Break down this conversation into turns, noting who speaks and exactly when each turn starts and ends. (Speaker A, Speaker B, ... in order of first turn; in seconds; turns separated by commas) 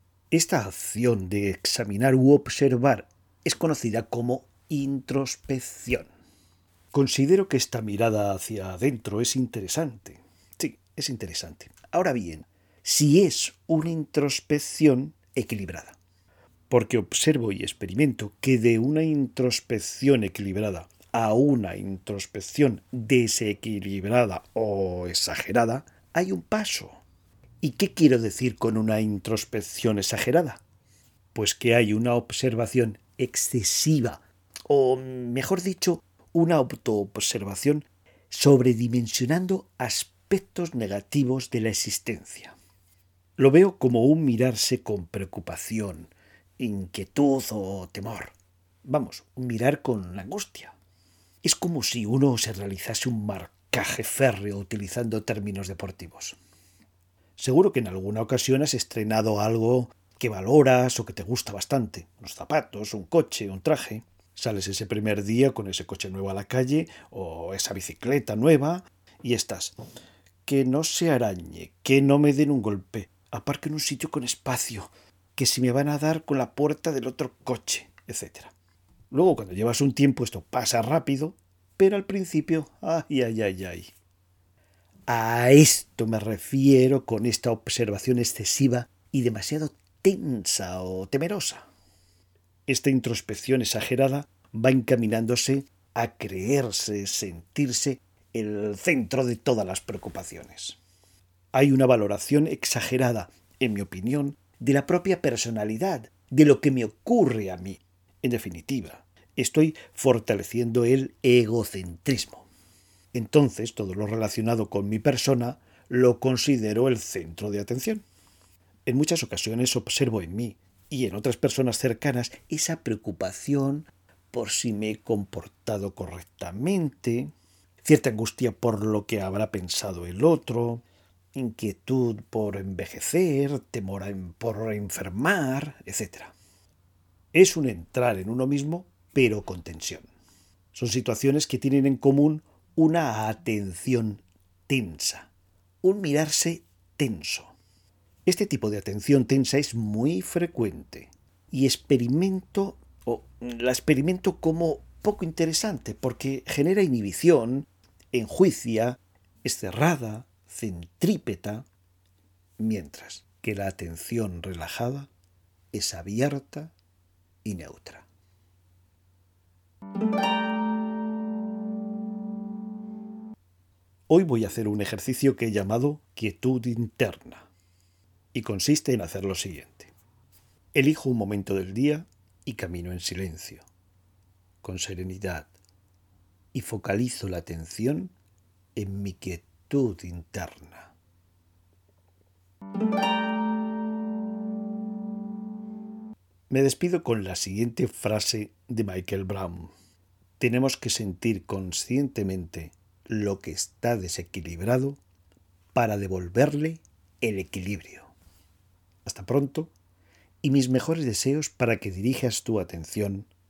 Speaker A: 0.3-6.1, Speaker A: 6.9-16.0, Speaker A: 16.7-27.0, Speaker A: 27.6-30.6, Speaker A: 31.3-42.5, Speaker A: 43.4-48.3, Speaker A: 48.8-50.7, Speaker A: 51.4-56.4, Speaker A: 57.4-69.8, Speaker A: 70.4-78.5, Speaker A: 79.1-83.9, Speaker A: 85.1-91.7, Speaker A: 92.7-100.8, Speaker A: 101.5-112.5, Speaker A: 113.1-118.0, Speaker A: 118.9-127.3, Speaker A: 127.8-130.8, Speaker A: 131.3-136.3, Speaker A: 137.3-140.1, Speaker A: 140.7-145.3, Speaker A: 145.8-147.6, Speaker A: 148.2-161.7, Speaker A: 162.6-165.1, Speaker A: 165.7-166.7, Speaker A: 167.4-168.0, Speaker A: 174.1-177.5, Speaker A: 178.3-179.9, Speaker A: 180.7-183.7, Speaker A: 184.6-185.5, Speaker A: 186.5-188.1, Speaker A: 188.8-190.9, Speaker A: 196.5-199.7, Speaker A: 200.4-205.0, Speaker A: 205.7-208.1, Speaker A: 209.0-209.7, Speaker A: 210.4-213.3